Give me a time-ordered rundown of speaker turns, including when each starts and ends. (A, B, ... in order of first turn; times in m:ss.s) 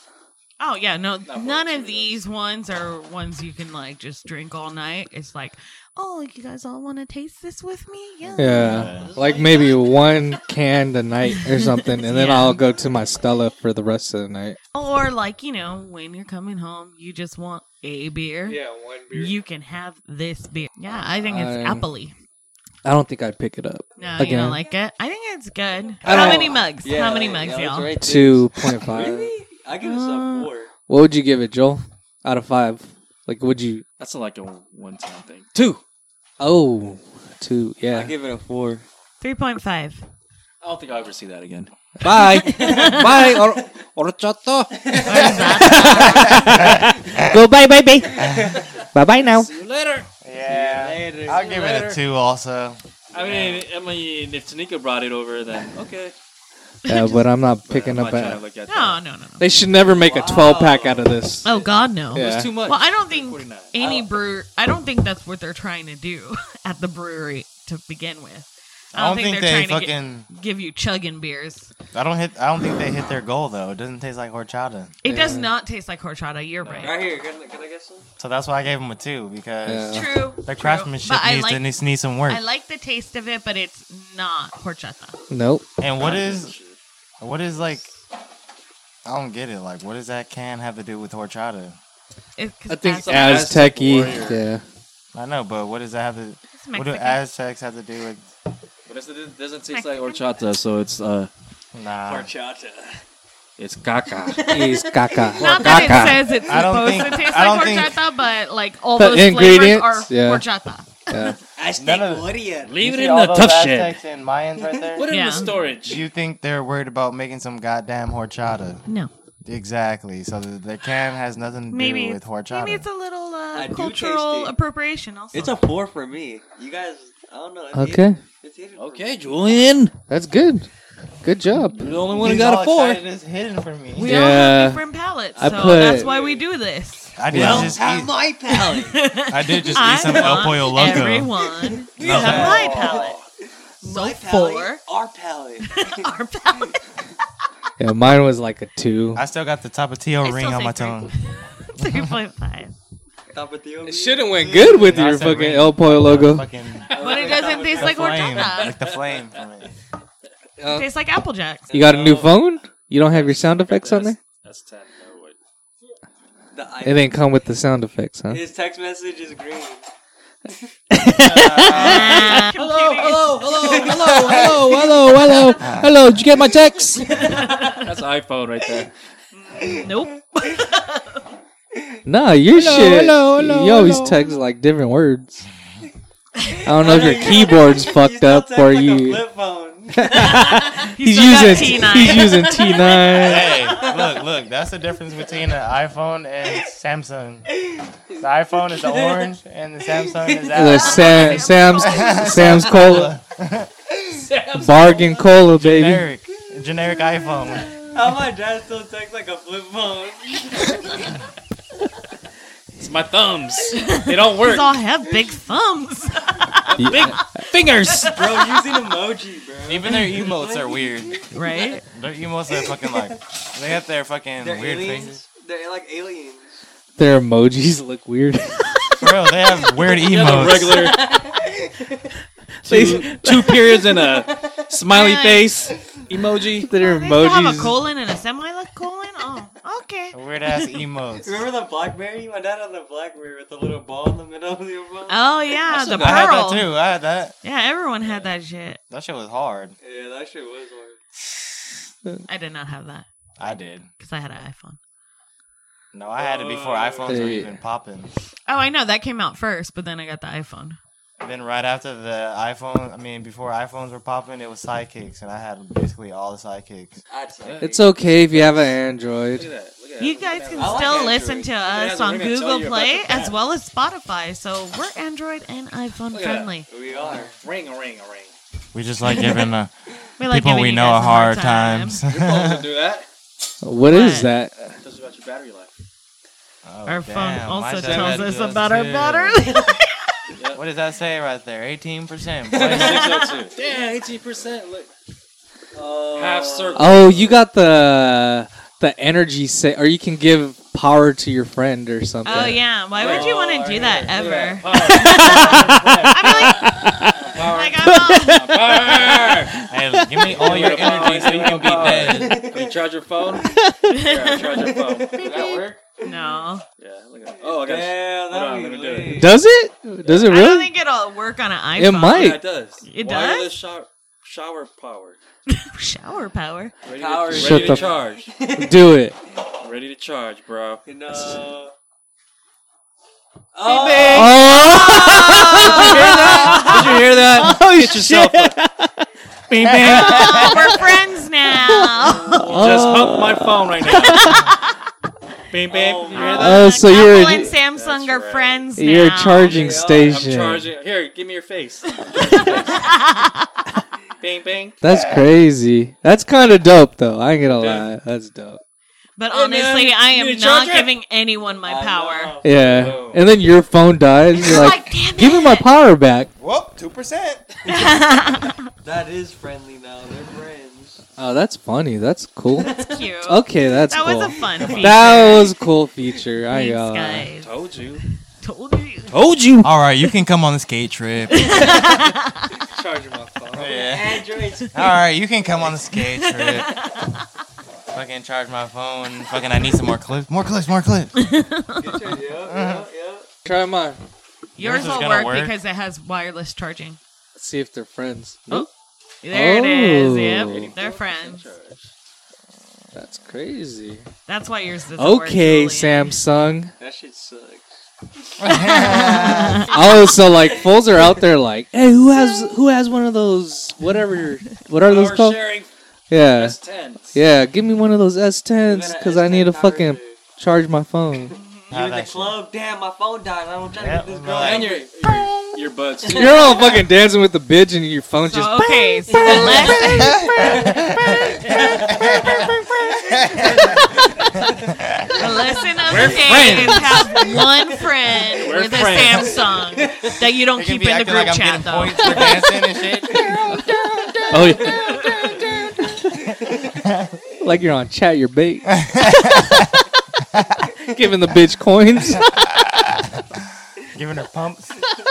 0:00.6-0:09.0 A
0:01.3-0:02.2 B
0:08.2-0:09.1 C
0:08.4-0:14.6 D
0:08.9-0:09.8 B
0:11.9-0:12.6 A
0:14.7-0:18.6 A
0:18.5-0:19.1 D
0:19.1-0:22.1 A
0:21.3-0:21.9 D
0:22.8-0:24.6 D
0:24.0-0:24.6 E
0:24.0-0:27.9 A
0:26.0-0:26.7 D
0:26.0-0:30.7 E
0:28.0-0:29.3 D
0:29.8-0:30.5 A
0:30.9-0:33.8 D
0:34.0-0:35.8 B
0:36.4-0:38.1 D
0:37.9-0:38.8 E
0:39.2-0:40.0 A
0:40.6-0:41.7 B
0:42.0-0:44.9 D
0:42.4-0:43.0 E
0:42.4-0:43.1 A
0:42.6-0:46.8 B
0:44.8-0:46.0 E
0:45.0-0:46.5 A
0:45.1-0:45.5 C
0:45.6-0:48.4 D
0:46.1-0:47.4 C
0:48.1-0:48.8 E
0:48.9-0:49.5 D
0:49.3-0:50.1 B
0:50.2-0:53.6 C
0:50.5-0:51.5 E
0:51.2-0:52.0 B
0:53.1-0:56.1 B
0:56.8-0:57.2 A
0:56.9-0:58.4 D
0:57.7-0:59.0 B
0:58.7-0:59.5 A
0:59.4-1:01.5 D
0:59.8-1:01.1 E
1:01.4-1:11.7 A
1:01.4-1:03.8 B
1:02.1-1:02.6 D
1:03.8-1:04.3 E
1:08.9-1:10.3 C
1:11.9-1:15.0 C
1:15.0-1:17.0 A
1:15.0-1:15.5 D
1:16.6-1:17.0 B
1:16.8-1:18.1 E
1:18.2-1:22.4 C
1:19.7-1:20.1 D
1:19.9-1:21.7 A
1:22.3-1:25.2 A
1:25.3-1:25.6 D
1:25.8-1:26.5 C
1:26.0-1:26.8 B
1:27.2-1:27.9 C
1:29.0-1:31.8 C
1:32.4-1:33.6 A
1:32.7-1:34.6 D
1:32.9-1:34.4 B
1:35.1-1:38.2 C
1:36.5-1:37.2 A
1:38.9-1:41.3 B
1:39.7-1:40.2 A
1:41.7-1:42.3 C
1:42.0-1:43.0 E
1:43.6-1:44.6 B
1:44.2-1:46.1 E
1:44.5-1:46.3 D
1:45.4-1:51.4 A
1:46.4-1:48.0 C
1:49.0-1:50.4 D
1:51.1-1:51.4 D
1:51.6-1:52.8 E
1:51.8-1:58.8 C
1:52.6-1:54.0 B
1:54.6-1:54.9 E
1:54.9-1:56.0 B
1:55.1-1:55.5 A
1:58.9-1:59.1 A
1:59.4-2:02.8 C
2:01.7-2:05.6 A
2:03.5-2:04.6 E
2:05.3-2:09.6 E
2:07.7-2:08.2 D
2:08.8-2:10.0 B
2:10.1-2:10.7 D
2:11.2-2:11.8 D
2:11.8-2:13.0 B
2:11.8-2:14.2 C
2:14.0-2:17.1 A
2:14.0-2:14.8 D
2:15.4-2:16.4 E
2:15.4-2:16.1 D
2:17.2-2:18.2 C
2:17.3-2:19.1 E
2:17.3-2:17.8 D
2:18.5-2:23.2 A
2:19.3-2:21.3 C
2:19.7-2:23.2 E
2:22.0-2:23.1 C
2:22.0-2:23.0 B
2:23.8-2:26.1 E
2:23.8-2:24.8 A
2:25.7-2:26.8 A
2:27.8-2:29.2 D
2:29.1-2:31.1 C
2:30.2-2:32.8 A
2:31.8-2:32.2 C
2:33.3-2:35.0 E
2:33.8-2:36.5 D
2:34.6-2:36.9 C
2:36.9-2:38.4 E
2:36.9-2:37.5 B
2:36.9-2:38.8 A
2:37.7-2:39.7 C
2:38.6-2:39.0 B
2:40.6-2:40.9 D
2:40.7-2:41.7 A
2:41.7-2:42.4 E
2:41.7-2:44.2 D
2:43.1-2:45.4 B
2:46.5-2:47.2 E
2:46.8-2:48.4 D
2:48.3-2:49.8 E
2:50.9-2:52.3 D
2:51.2-2:52.4 C
2:51.6-2:53.4 A
2:51.8-2:55.6 B
2:53.6-2:54.6 E
2:53.8-2:57.3 D
2:57.2-2:57.8 A
2:57.2-2:57.7 E
2:57.4-2:58.9 B
2:59.3-3:00.1 E
2:59.6-3:01.2 A
3:02.0-3:05.5 D
3:02.5-3:04.1 B
3:06.6-3:09.3 D
3:06.7-3:10.8 E
3:10.0-3:13.6 D
3:10.9-3:13.7 A
3:11.4-3:14.2 E
3:13.2-3:17.5 C
3:17.5-3:20.8 E
3:18.2-3:23.7 C
3:20.5-3:23.1 D
3:20.7-3:22.6 A
3:24.1-3:25.3 B
3:24.6-3:26.1 D
3:25.6-3:27.8 C
3:27.5-3:31.2 E
3:32.8-3:34.8 B
3:33.8-3:38.6 A
3:36.8-3:38.2 B
3:36.8-3:37.4 D
3:38.0-3:41.3 E
3:39.6-3:41.2 C
3:41.3-3:41.8 A
3:41.8-3:45.2 C
3:42.5-3:43.2 E
3:44.4-3:46.6 E
3:47.0-3:49.0 D
3:49.0-3:50.9 C
3:49.9-3:51.0 B
3:50.2-3:52.1 E
3:52.6-3:56.7 B
3:52.7-3:53.7 D
3:53.9-3:54.7 E
3:54.9-3:55.7 A
3:56.6-3:57.8 D
3:56.7-4:00.2 A
4:00.1-4:01.4 C
4:01.2-4:05.3 E
4:05.1-4:06.7 A
4:05.7-4:06.3 B
4:06.0-4:07.4 C
4:07.4-4:08.8 A
4:08.9-4:09.8 C
4:09.8-4:11.0 E
4:12.3-4:13.1 A
4:13.4-4:13.9 C
4:14.0-4:14.8 A
4:15.9-4:18.1 C
4:16.2-4:16.9 E
4:16.3-4:17.1 B
4:17.1-4:17.6 D
4:18.5-4:20.8 A
4:21.2-4:27.0 C
4:27.1-4:27.7 E
4:27.4-4:28.8 B
4:27.6-4:29.5 D
4:29.3-4:33.4 B
4:30.0-4:36.7 A
4:30.6-4:31.5 E
4:36.1-4:38.3 B
4:36.7-4:37.3 E
4:38.7-4:42.7 C
4:40.2-4:42.0 A
4:42.1-4:43.1 B
4:43.6-4:44.7 D
4:43.9-4:44.3 A
4:44.6-4:45.7 B
4:46.6-4:49.5 C
4:46.9-4:49.9 A
4:47.8-4:48.4 B
4:50.5-4:53.3 C
4:52.5-4:53.5 E
4:52.5-4:54.9 B
4:55.7-4:57.2 E
4:56.1-4:57.4 B
4:56.8-5:02.6 D
5:02.2-5:06.9 A
5:02.3-5:06.6 B
5:03.0-5:03.3 E
5:04.8-5:10.3 D
5:07.1-5:09.6 B
5:07.4-5:08.7 A
5:09.7-5:12.5 C
5:10.3-5:15.8 B
5:10.3-5:12.8 E
5:13.4-5:14.0 D
5:13.9-5:14.6 A
5:14.5-5:16.4 E
5:16.0-5:16.6 A
5:16.8-5:19.3 B
5:17.4-5:19.4 E
5:19.1-5:20.7 D
5:20.0-5:20.4 B
5:20.3-5:23.6 A
5:21.8-5:22.4 D
5:22.1-5:25.2 B
5:25.5-5:26.7 A
5:26.8-5:28.3 B
5:27.0-5:28.9 E
5:27.3-5:28.0 D
5:28.5-5:29.2 D
5:29.6-5:31.4 B
5:30.8-5:31.7 E
5:33.5-5:34.4 E
5:33.6-5:37.0 A
5:33.7-5:34.4 B
5:34.1-5:39.0 D
5:35.5-5:38.6 B
5:39.5-5:40.5 B
5:39.7-5:40.6 C
5:39.8-5:40.6 D
5:39.8-5:42.5 A
5:41.6-5:44.6 D
5:42.0-5:43.2 E
5:42.5-5:44.4 B
5:43.9-5:44.8 A
5:45.5-5:46.9 B
5:45.7-5:46.6 E
5:46.1-5:49.8 A
5:46.4-5:47.6 D
5:47.4-5:48.7 B
5:48.8-5:50.7 D
5:49.4-5:50.3 E
5:49.8-5:53.1 B
5:52.1-5:53.6 A
5:54.2-5:54.8 B
5:54.8-5:58.6 D
5:57.5-5:57.9 B
5:59.2-6:02.4 A
5:59.3-6:01.0 B
6:01.6-6:03.0 E
6:02.4-6:06.3 D
6:02.6-6:03.2 B
6:04.4-6:05.7 A
6:06.4-6:07.6 C
6:07.7-6:08.6 A
6:08.8-6:11.0 E
6:11.2-6:17.3 D
6:12.6-6:13.0 E
6:12.8-6:15.6 A
6:14.6-6:15.0 C
6:14.7-6:15.2 B
6:16.5-6:17.5 A
6:17.4-6:18.0 B
6:18.4-6:19.1 A
6:19.1-6:19.7 D
6:19.6-6:22.0 C
6:21.3-6:22.6 A
6:22.8-6:23.6 D
6:23.5-6:24.9 E
6:23.5-6:26.8 C
6:25.9-6:27.2 A
6:27.9-6:31.3 C
6:31.2-6:32.0 A
6:31.8-6:33.3 E
6:32.4-6:32.9 C
6:33.4-6:34.0 D
6:34.6-6:37.0 A
6:34.6-6:35.6 C
6:37.4-6:38.7 D
6:39.2-6:41.5 A
6:39.3-6:40.7 D
6:40.4-6:41.9 B
6:42.9-6:44.0 D
6:44.3-6:46.2 A
6:45.0-6:46.7 D
6:46.8-6:47.7 E
6:48.4-6:49.7 C
6:48.5-6:49.8 A
6:49.7-6:55.5 D
6:50.4-6:51.2 E
6:52.2-6:52.5 A
6:54.8-6:55.7 B
6:56.1-6:56.6 D
6:56.3-6:57.2 B
6:57.1-7:01.4 D
6:58.6-7:00.2 E
7:01.3-7:01.7 A
7:01.7-7:02.4 C
7:01.7-7:04.9 E
7:03.7-7:04.8 C
7:04.4-7:06.7 B
7:06.0-7:06.6 E
7:06.1-7:09.8 D
7:08.3-7:10.6 A
7:09.1-7:14.4 E
7:09.8-7:12.5 C
7:13.1-7:13.9 C
7:15.2-7:22.2 A
7:15.8-7:17.1 B
7:18.3-7:19.4 B
7:19.8-7:20.1 E
7:20.6-7:23.2 C
7:22.1-7:26.7 E
7:24.3-7:25.5 D
7:24.3-7:24.7 B
7:27.4-7:28.8 D
7:28.8-7:29.7 C
7:30.9-7:32.6 D
7:32.3-7:33.4 C
7:33.9-7:34.8 C